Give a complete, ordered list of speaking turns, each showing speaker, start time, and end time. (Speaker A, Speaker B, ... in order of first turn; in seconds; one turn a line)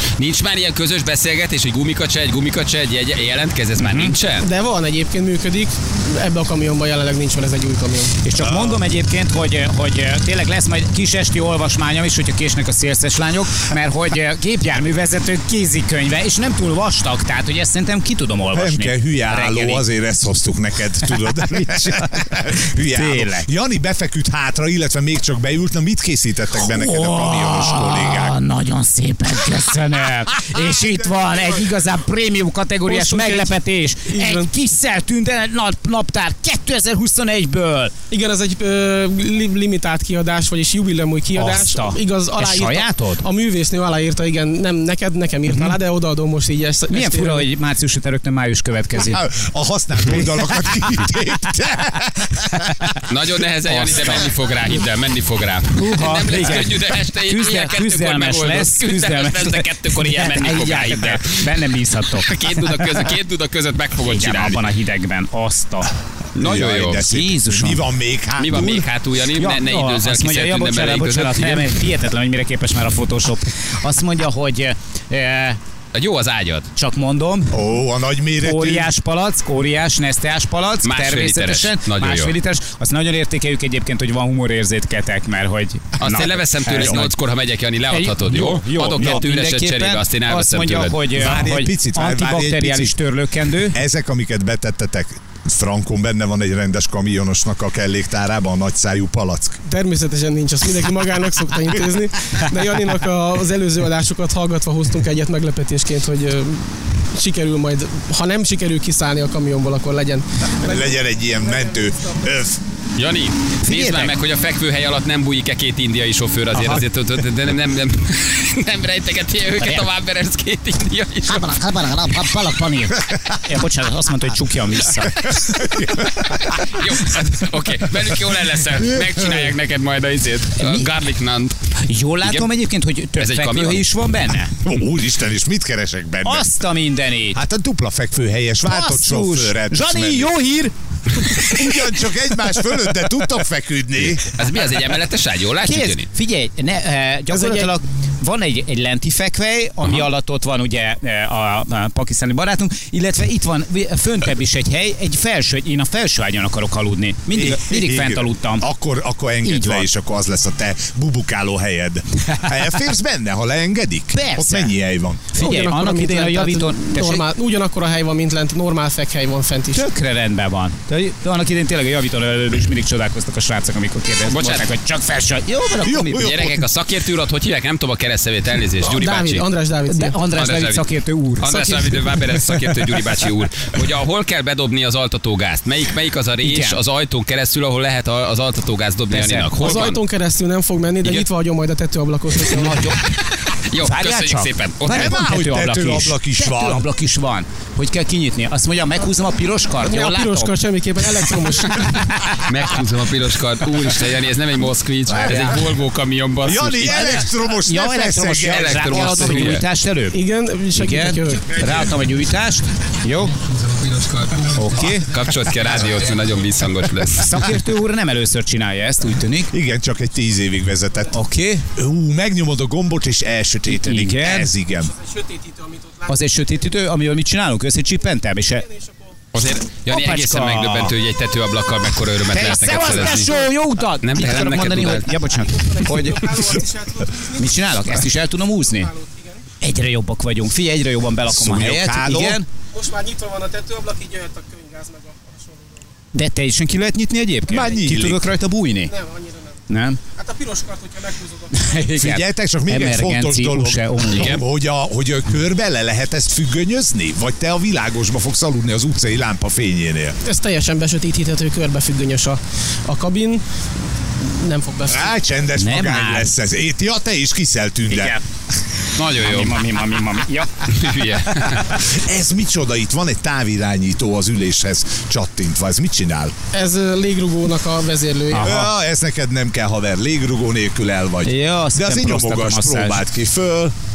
Speaker A: 0.2-4.5
Speaker B: 3.8-4.1
Speaker C: 4.4-8.1
Speaker B: 8.2-19.9
Speaker D: 8.4-8.8
Speaker D: 18.5-28.4
Speaker B: 21.1-23.5
Speaker B: 26.6-37.9
Speaker D: 30.5-30.9
Speaker C: 32.9-34.5
Speaker C: 38.1-47.5
Speaker B: 41.3-43.2
Speaker B: 45.5-45.7
Speaker B: 46.9-49.2
Speaker D: 49.0-52.8
Speaker B: 52.6-53.0
Speaker A: 53.1-61.4
Speaker B: 53.7-54.2
Speaker B: 55.7-62.3
Speaker A: 62.2-64.6
Speaker B: 64.0-65.9
Speaker A: 66.3-67.1
Speaker D: 66.4-68.8
Speaker B: 67.0-67.8
Speaker A: 68.4-71.7
Speaker B: 69.3-75.6
Speaker A: 75.9-76.7
Speaker B: 76.7-77.6
Speaker D: 77.5-78.9
Speaker B: 78.4-87.1
Speaker A: 80.8-82.3
Speaker A: 86.0-91.0
Speaker D: 86.7-87.0
Speaker B: 87.9-93.8
Speaker D: 91.1-93.0
Speaker D: 93.6-99.6
Speaker C: 99.7-111.9
Speaker D: 110.6-112.6
Speaker A: 113.0-121.5
Speaker B: 113.6-114.1
Speaker B: 119.6-119.9
Speaker B: 121.3-125.5
Speaker D: 125.4-126.5
Speaker A: 126.2-131.6
Speaker D: 129.0-129.4
Speaker B: 130.6-130.9
Speaker B: 131.8-134.5
Speaker A: 132.2-132.5
Speaker A: 133.2-133.9
Speaker D: 134.6-136.5
Speaker B: 136.2-137.4
Speaker D: 137.3-140.3
Speaker B: 138.7-141.7
Speaker D: 141.2-144.3
Speaker A: 144.2-146.1
Speaker B: 145.6-158.7
Speaker C: 147.3-147.7
Speaker D: 157.3-165.2
Speaker B: 159.4-159.9
Speaker B: 164.1-164.7
Speaker B: 165.3-167.2
Speaker C: 165.4-169.8
Speaker B: 169.7-176.4
Speaker A: 174.3-174.6
Speaker D: 175.8-176.6
Speaker A: 176.2-179.4
Speaker C: 178.8-180.2
Speaker B: 179.9-182.0
Speaker A: 180.3-180.8
Speaker A: 181.4-190.0
Speaker B: 186.4-186.8
Speaker B: 189.1-189.8
Speaker C: 189.6-192.9
Speaker B: 192.5-193.0
Speaker A: 193.5-195.2
Speaker B: 193.8-200.5
Speaker D: 194.8-196.9
Speaker C: 199.8-201.9
Speaker A: 202.3-207.3
Speaker D: 205.1-205.7
Speaker D: 206.4-209.6
Speaker B: 207.0-210.2
Speaker A: 208.4-209.6
Speaker C: 210.1-211.6
Speaker B: 210.7-213.3
Speaker A: 213.6-217.4
Speaker B: 214.5-215.1
Speaker B: 217.2-219.5
Speaker D: 219.5-221.1
Speaker B: 221.1-221.7
Speaker D: 221.7-224.9
Speaker B: 223.7-224.5
Speaker C: 224.8-226.2
Speaker B: 226.1-228.7
Speaker C: 228.6-229.2
Speaker A: 229.3-233.3
Speaker B: 229.9-230.9
Speaker B: 232.3-236.3
Speaker A: 234.0-235.1
Speaker C: 235.3-239.4
Speaker B: 237.3-238.9
Speaker B: 239.6-242.5
Speaker D: 241.3-242.4
Speaker C: 242.7-245.9
Speaker B: 246.1-248.9
Speaker D: 247.5-248.2
Speaker C: 247.5-247.9
Speaker C: 248.9-249.6
Speaker B: 249.7-250.0
Speaker C: 250.1-251.8
Speaker B: 251.5-254.4
Speaker D: 251.9-260.2
Speaker C: 260.2-263.4
Speaker C: 264.2-265.1
Speaker D: 264.9-268.2
Speaker B: 265.6-266.3
Speaker B: 267.9-268.2
Speaker A: 268.9-269.6
Speaker B: 269.1-270.6
Speaker A: 270.7-271.8
Speaker D: 271.7-276.3
Speaker C: 276.5-278.6
Speaker B: 278.3-278.7
Speaker D: 278.4-283.7
Speaker B: 281.2-283.0